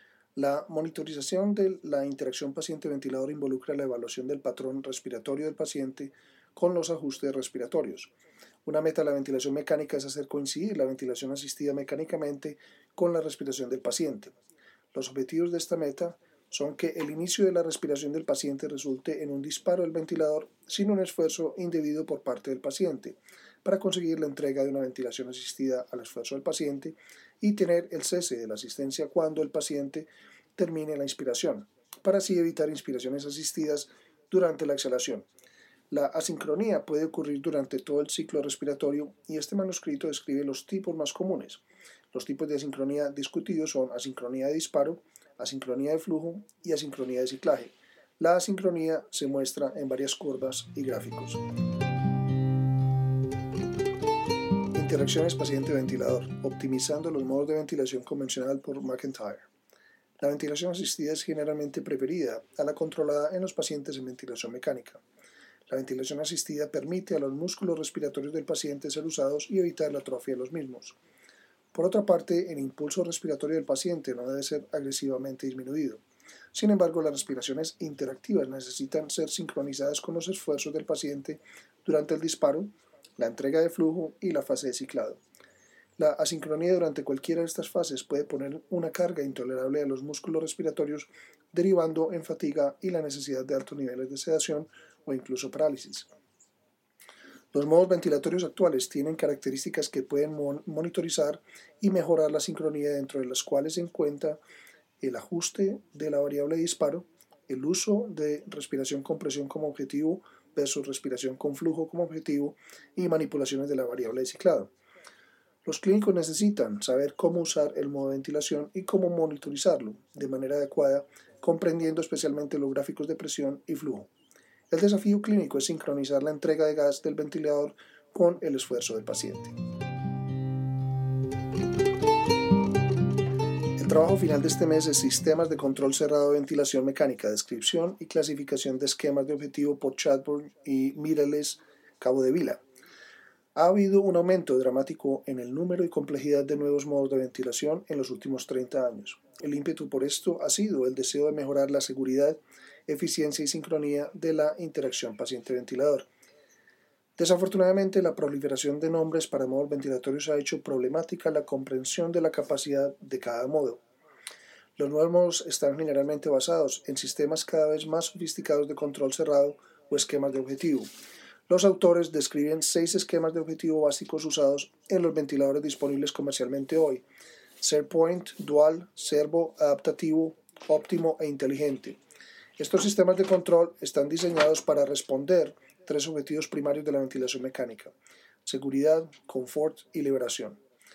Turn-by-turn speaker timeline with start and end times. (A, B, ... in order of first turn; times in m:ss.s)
0:00.4-0:08.1 A
0:08.7-0:14.3 A
0:14.9-0:35.3 A
0:35.9-0:51.4 A
0:54.7-0:59.5 A
1:00.2-1:05.0 A
1:05.7-1:11.0 A
1:11.7-1:16.0 A
1:16.5-1:25.2 A
1:26.0-1:36.1 A
1:37.5-1:44.4 A
1:45.0-1:54.7 A
1:55.6-2:04.1 A
2:04.7-2:09.6 A
2:13.8-2:22.6 A
2:23.6-2:36.1 A
2:37.2-2:43.8 A
2:44.8-2:50.9 A
2:51.5-2:57.0 A
2:57.6-3:02.0 A
3:02.6-3:07.9 A
3:08.4-3:10.6 A